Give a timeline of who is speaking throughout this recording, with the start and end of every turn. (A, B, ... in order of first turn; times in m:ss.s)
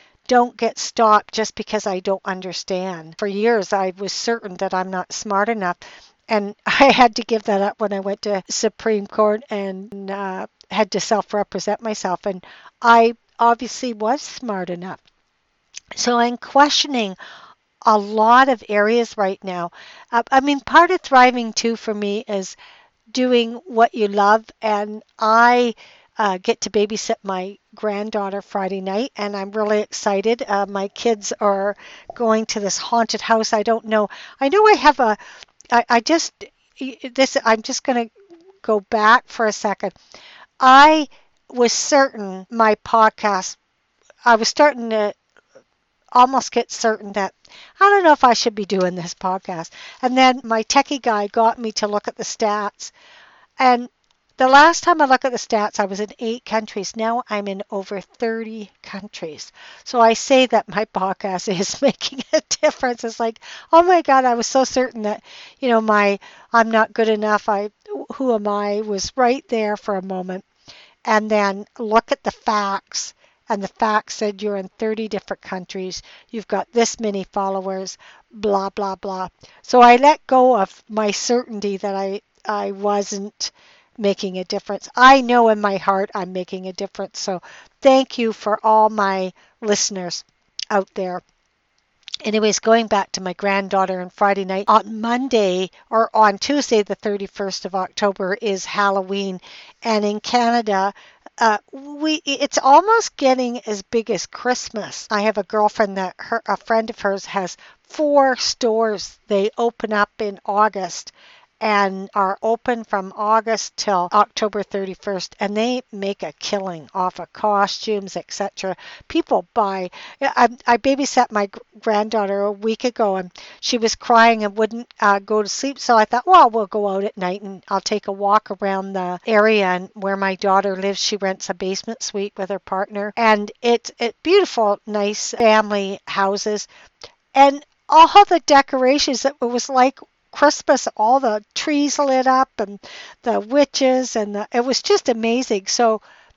0:00.3-0:15.0 A
0:15.9-0:17.2 A
0:17.8-0:22.6 A
0:23.1-0:35.2 A
0:35.7-0:38.1 A
0:38.6-0:40.0 A
0:40.6-0:43.6 A
0:44.2-0:45.2 A
0:46.1-0:52.9 A
0:53.6-1:10.4 A
1:11.0-1:31.2 A
1:32.2-2:16.7 A
2:17.3-2:26.0 A